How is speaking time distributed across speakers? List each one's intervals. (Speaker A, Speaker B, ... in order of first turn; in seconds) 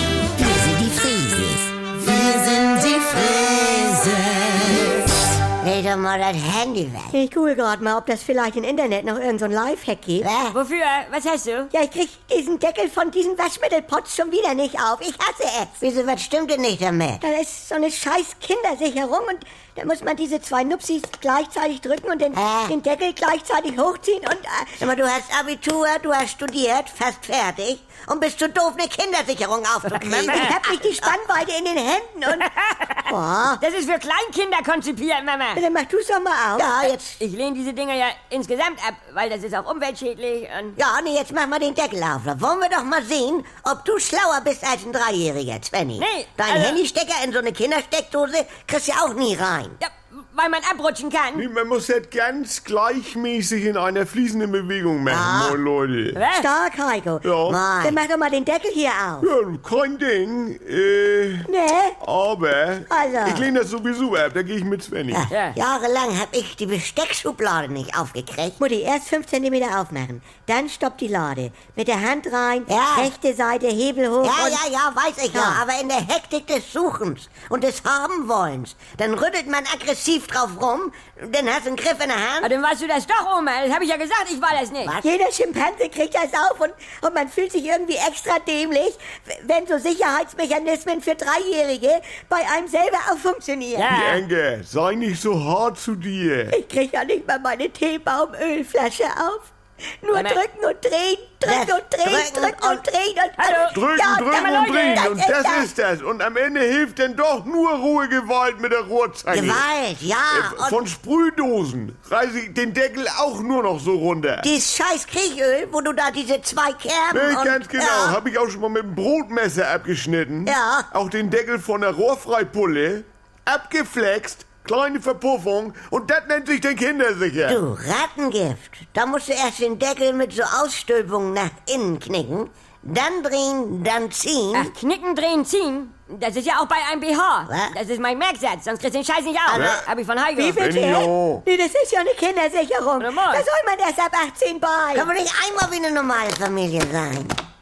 Speaker A: 0.4-4.9, 5.6-7.2, 10.2-10.6, 15.7-17.2, 22.3-22.8, 24.8-31.2, 36.6-37.2, 40.8-49.8, 55.1-55.6, 57.5-58.0, 65.1-68.6, 72.7-73.1, 74.2-82.5, 84.8-85.1, 101.4-102.8, 109.3-110.8, 114.4-118.2, 120.5-120.9, 127.4-134.7, 137.5-137.8, 139.5-139.8, 144.9-147.4
Speaker B: 7.1-10.3, 11.7-15.7, 17.2-24.9, 30.0-32.5, 33.1-33.6, 35.5-36.7, 56.3-59.3, 61.5-62.0, 62.9-63.5, 68.6-74.6, 75.3-75.6, 85.0-93.9, 96.5-105.7, 140.4-145.1
Speaker C: 10.5-11.7, 29.9-30.5, 32.3-35.6, 36.9-40.8, 46.0-46.8, 49.8-51.5, 56.1-56.5, 65.3-65.6, 82.4-84.9, 93.7-94.2, 100.1-100.4, 103.4-103.8, 104.4-105.1, 134.5-140.6, 143.0-143.4
Speaker D: 51.3-56.2, 57.2-57.7, 59.2-61.5, 62.0-65.3, 93.9-96.6, 103.7-109.6, 110.3-114.5, 117.1-127.6, 139.5-139.8, 140.4-141.4